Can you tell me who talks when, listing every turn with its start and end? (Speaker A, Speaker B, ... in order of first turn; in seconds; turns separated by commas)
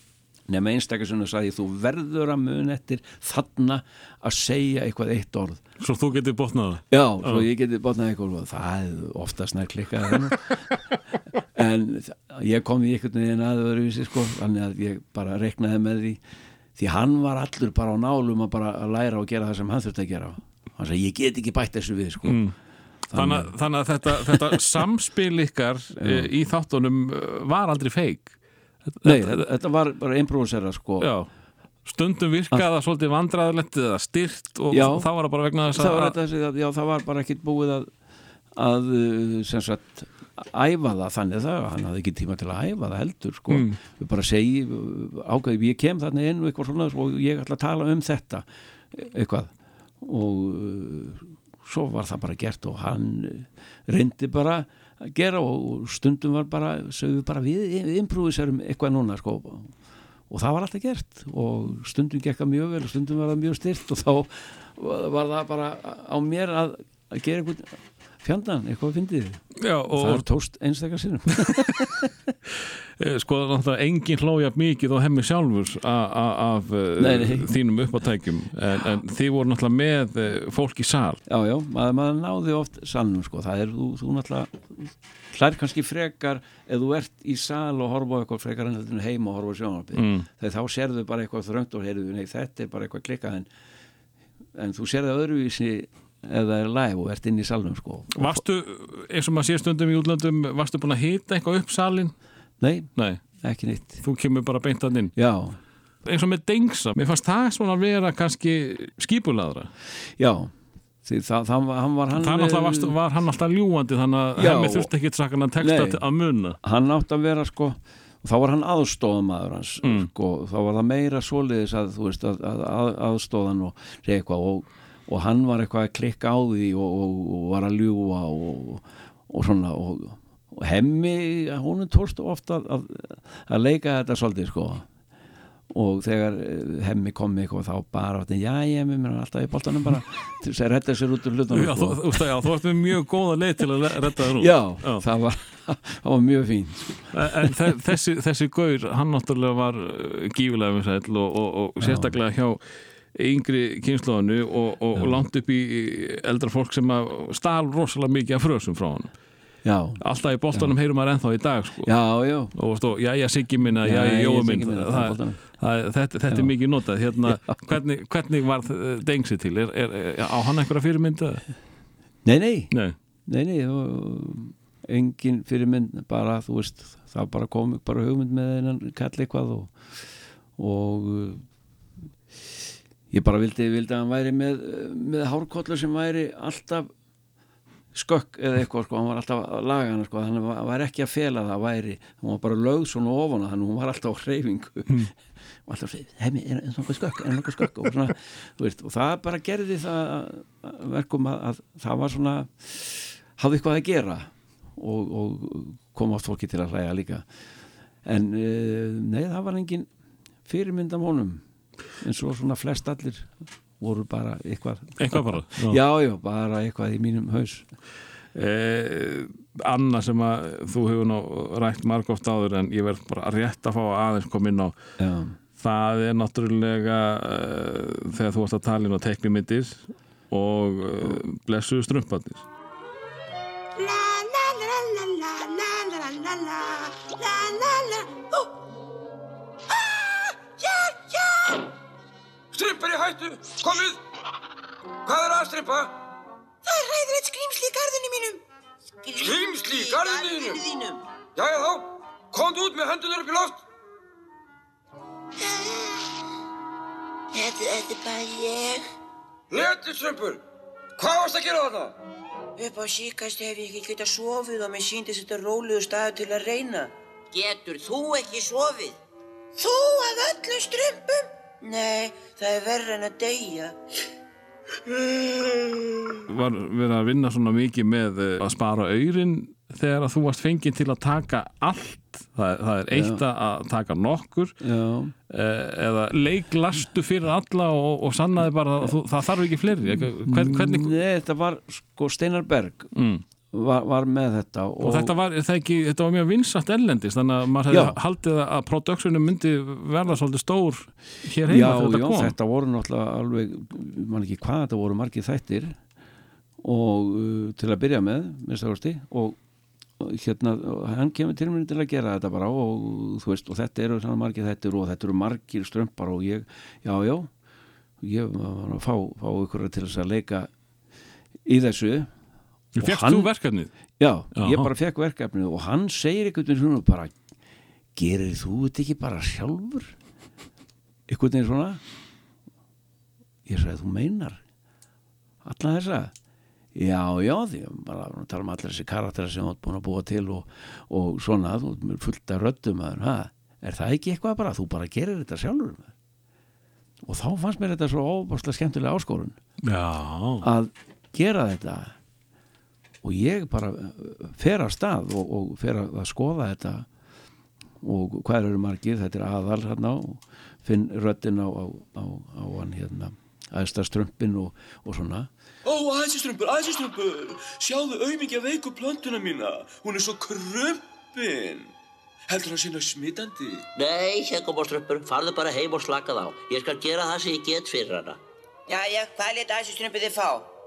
Speaker A: 0.5-5.6, Speaker B: 5.8-7.5, Speaker A: 6.9-10.7, Speaker A: 11.4-16.2, Speaker A: 16.8-22.4, Speaker B: 22.2-22.5, Speaker A: 23.1-23.5, Speaker B: 23.1-28.3, Speaker A: 24.1-24.6, Speaker A: 25.9-26.3, Speaker B: 28.9-29.4, Speaker A: 29.0-31.1, Speaker B: 31.0-31.3, Speaker B: 31.8-36.1, Speaker A: 34.7-35.1, Speaker A: 35.7-37.9, Speaker A: 38.5-59.7, Speaker B: 43.5-43.8, Speaker A: 60.3-72.1, Speaker B: 69.6-70.2, Speaker B: 73.0-81.2, Speaker A: 77.0-77.5, Speaker A: 81.3-93.5, Speaker B: 90.0-90.3, Speaker A: 94.5-98.4, Speaker B: 98.1-102.1, Speaker A: 102.6-104.0, Speaker B: 103.0-103.2, Speaker B: 104.0-105.1, Speaker A: 105.2-105.6, Speaker B: 106.0-109.7, Speaker A: 110.0-110.5, Speaker A: 111.0-113.0, Speaker B: 112.1-116.6, Speaker A: 114.3-114.9, Speaker A: 115.6-116.0, Speaker A: 116.6-134.8, Speaker B: 119.8-120.1, Speaker A: 135.7-142.2, Speaker B: 141.5-145.0, Speaker A: 144.1-147.6, Speaker B: 147.1-152.6, Speaker A: 151.8-152.1, Speaker B: 153.1-159.1, Speaker A: 154.9-155.2, Speaker A: 159.6-160.0, Speaker B: 160.0-161.9, Speaker A: 161.8-162.5, Speaker B: 162.5-171.4, Speaker A: 163.8-165.4, Speaker A: 167.2-167.6, Speaker A: 172.2-172.7, Speaker B: 172.7-172.9, Speaker A: 173.2-179.9, Speaker A: 180.6-181.4, Speaker A: 183.1-186.9, Speaker A: 187.9-195.1, Speaker A: 195.7-207.2, Speaker A: 208.0-209.9, Speaker A: 210.4-211.4, Speaker A: 212.0-217.7, Speaker B: 215.0-215.8, Speaker B: 218.3-224.7, Speaker A: 225.0-225.4, Speaker B: 225.6-232.4, Speaker C: 233.8-238.5, Speaker C: 239.7-241.6, Speaker D: 242.5-244.0, Speaker D: 245.0-245.9, Speaker C: 246.7-248.4, Speaker D: 249.2-250.6, Speaker D: 251.3-253.6, Speaker C: 255.4-256.0, Speaker C: 257.6-258.0, Speaker D: 259.5-260.4, Speaker D: 261.0-261.9, Speaker C: 262.8-263.4, Speaker C: 265.6-266.3, Speaker E: 267.3-269.0, Speaker C: 269.6-271.2, Speaker B: 276.3-284.6, Speaker A: 282.9-283.2, Speaker A: 284.6-285.1, Speaker B: 285.3-290.9, Speaker A: 289.9-292.9, Speaker B: 292.9-293.2, Speaker A: 293.5-295.1, Speaker B: 294.8-302.3, Speaker A: 297.7-298.0, Speaker A: 301.4-305.8, Speaker A: 306.6-309.4, Speaker A: 310.0-317.3, Speaker A: 318.0-320.5, Speaker A: 321.4-322.1, Speaker B: 322.8-323.7, Speaker A: 322.8-323.3, Speaker A: 324.0-327.1, Speaker B: 324.3-324.7, Speaker A: 327.9-329.9, Speaker A: 331.1-331.8, Speaker A: 333.4-334.4, Speaker A: 335.4-336.1, Speaker A: 336.7-345.9, Speaker A: 347.0-349.4, Speaker B: 349.6-350.4, Speaker A: 350.4-351.9, Speaker A: 353.0-356.9, Speaker A: 357.8-365.3, Speaker F: 365.6-371.7, Speaker F: 372.3-373.6, Speaker E: 373.8-378.2